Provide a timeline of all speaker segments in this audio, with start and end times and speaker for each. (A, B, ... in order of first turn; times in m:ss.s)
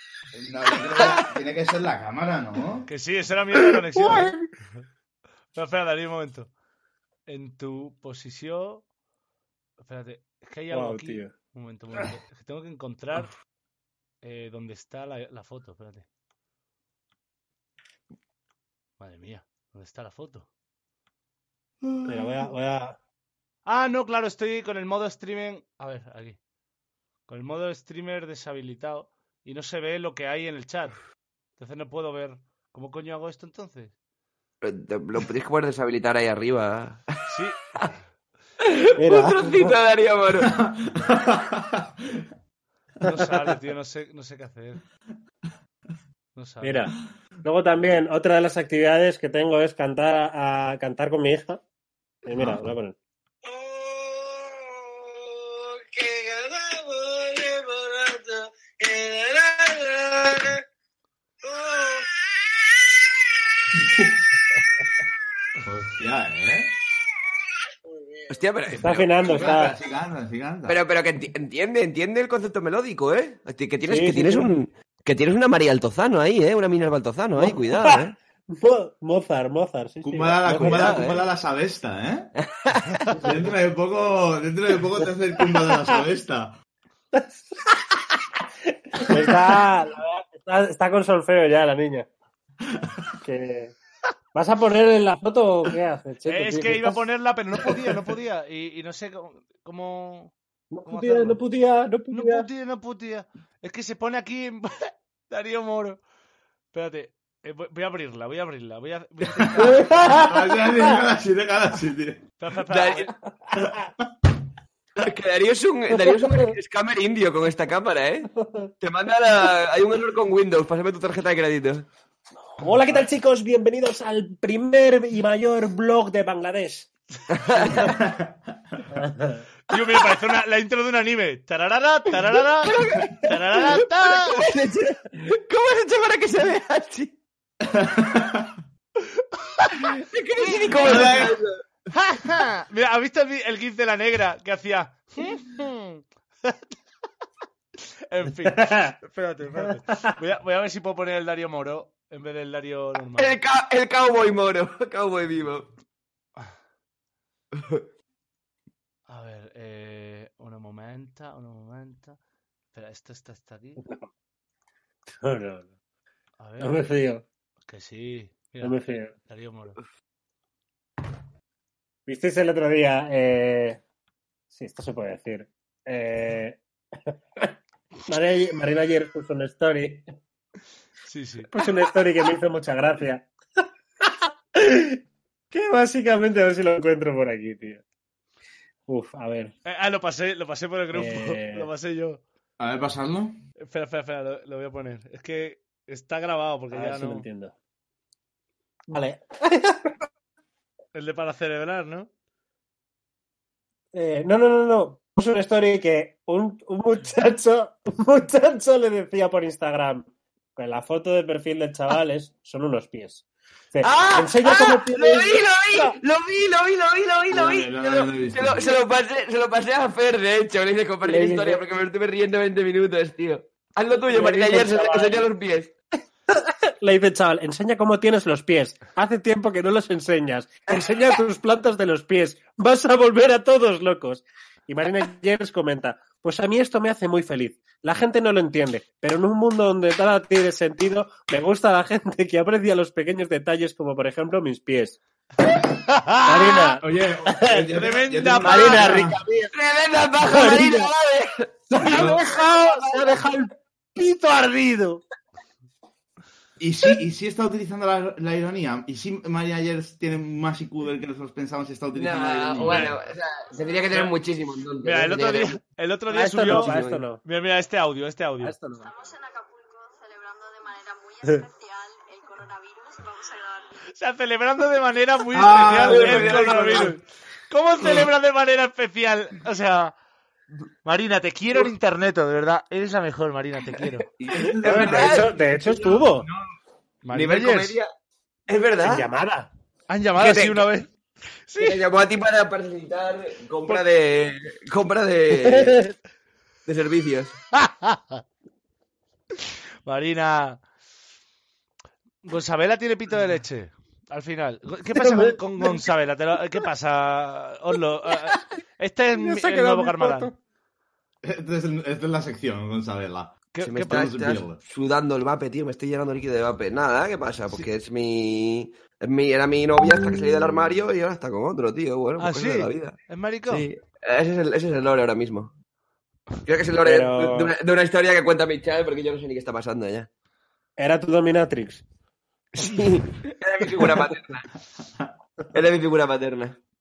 0:00.4-0:02.9 A
0:02.9-0:04.3 B
0:04.0-0:04.4 C
0:05.6-0:06.5 B
0:07.3-0:08.8 B
0:09.8-0:13.3 B
0:10.7-0:11.3 C
0:14.2-0:16.1 B
0:19.0-0:20.5 B
0:21.9-0:22.2 A
0:22.0-0:23.0 C
0:23.7-0:26.4 B
0:27.3-0:31.0 B
0:31.6-0:33.9 B
0:34.6-0:37.2 D
0:37.3-0:37.6 B
0:38.6-0:40.6 D
0:39.0-0:39.7 C
0:40.4-0:42.2 A
0:43.0-0:44.8 B
0:46.4-0:46.9 B
0:46.6-0:51.6 C
0:52.2-0:53.0 C
0:53.5-0:54.6 C
0:55.1-1:00.6 C
1:01.5-1:02.1 C
1:05.7-1:06.7 A
1:08.3-1:09.6 D
1:08.7-1:09.8 C
1:09.2-1:10.8 A
1:10.7-1:18.1 D
1:13.9-1:14.6 C
1:17.4-1:21.0 C
1:20.0-1:22.3 A
1:20.5-1:21.3 D
1:22.4-1:23.1 D
1:23.2-1:26.6 A
1:27.1-1:32.1 C
1:33.2-1:33.8 C
1:34.3-1:37.0 C
1:36.3-1:40.3 B
1:40.7-1:42.5 C
1:40.9-1:41.4 B
1:42.1-1:46.0 B
1:46.7-1:49.9 B
1:49.6-1:50.8 C
1:50.3-1:52.2 A
1:52.4-1:53.1 B
1:52.7-1:53.1 D
1:55.0-2:01.9 D
1:55.9-1:56.6 C
1:58.4-1:58.7 C
2:02.6-2:06.9 C
2:07.3-2:07.9 D
2:07.8-2:08.3 A
2:08.9-2:09.4 C
2:09.7-2:14.4 B
2:12.6-2:17.1 D
2:17.6-2:18.6 A
2:19.8-2:21.5 D
2:20.8-2:21.4 A
2:21.9-2:26.6 B
2:28.1-2:33.4 B
2:28.5-2:28.9 C
2:33.2-2:35.7 D
2:37.6-2:37.8 D
2:39.1-2:42.2 B
2:42.7-2:43.8 B
2:43.8-2:44.1 C
2:45.1-2:45.7 C
2:46.4-2:46.8 B
2:46.6-2:47.2 C
2:47.6-2:49.8 B
2:48.6-2:49.1 C
2:52.1-2:53.8 C
2:54.5-2:57.5 C
2:58.1-3:00.1 C
3:01.1-3:01.5 B
3:01.5-3:03.3 C
3:04.0-3:05.0 C
3:05.5-3:07.8 C
3:08.9-3:09.5 C
3:09.6-3:12.2 B
3:10.9-3:11.7 C
3:12.6-3:13.4 A
3:13.6-3:17.2 B
3:16.7-3:17.5 C
3:18.9-3:20.0 C
3:20.9-3:22.1 B
3:23.9-3:36.0 C
3:33.8-3:45.7 D
3:37.3-3:38.8 A
3:41.0-3:41.6 C
3:44.1-3:45.2 C
3:46.3-4:05.0 C
4:05.9-4:06.8 B
4:06.2-4:07.8 C
4:06.8-4:09.2 A
4:07.7-4:09.1 B
4:08.4-4:09.5 C
4:09.5-4:13.0 D
4:10.2-4:10.9 C
4:11.7-4:15.0 C
4:11.8-4:12.2 A
4:16.6-4:23.0 A
4:21.9-4:25.6 D
4:24.8-4:28.6 B
4:26.1-4:27.2 C
4:26.5-4:27.0 D
4:28.4-4:29.0 C
4:29.4-4:31.2 E
4:31.7-4:33.5 E
4:33.9-4:40.0 B
4:35.4-4:36.5 A
4:35.7-4:36.9 D
4:40.8-4:44.1 B
4:44.2-4:45.1 A
4:44.3-4:45.9 D
4:44.6-4:46.3 C
4:46.2-4:46.5 A
4:47.0-4:47.8 B
4:47.1-4:47.9 D
4:48.5-4:49.1 D
4:48.8-4:49.5 C
4:49.9-4:50.9 B
4:50.2-4:50.7 D
4:51.5-4:51.8 B
4:51.6-4:55.8 D
4:55.4-4:55.9 C
4:56.7-4:57.4 D
4:57.6-4:58.2 B
4:59.9-5:00.6 B
5:02.2-5:10.3 B
5:05.0-5:05.4 C
5:09.2-5:10.4 C
5:11.2-5:13.4 A
5:13.5-5:14.0 B
5:13.6-5:25.5 D
5:13.9-5:14.6 A
5:22.2-5:23.7 B
5:26.4-5:30.1 D
5:26.8-5:27.5 C
5:30.8-5:31.8 C
5:32.6-5:34.5 D
5:35.5-5:36.6 D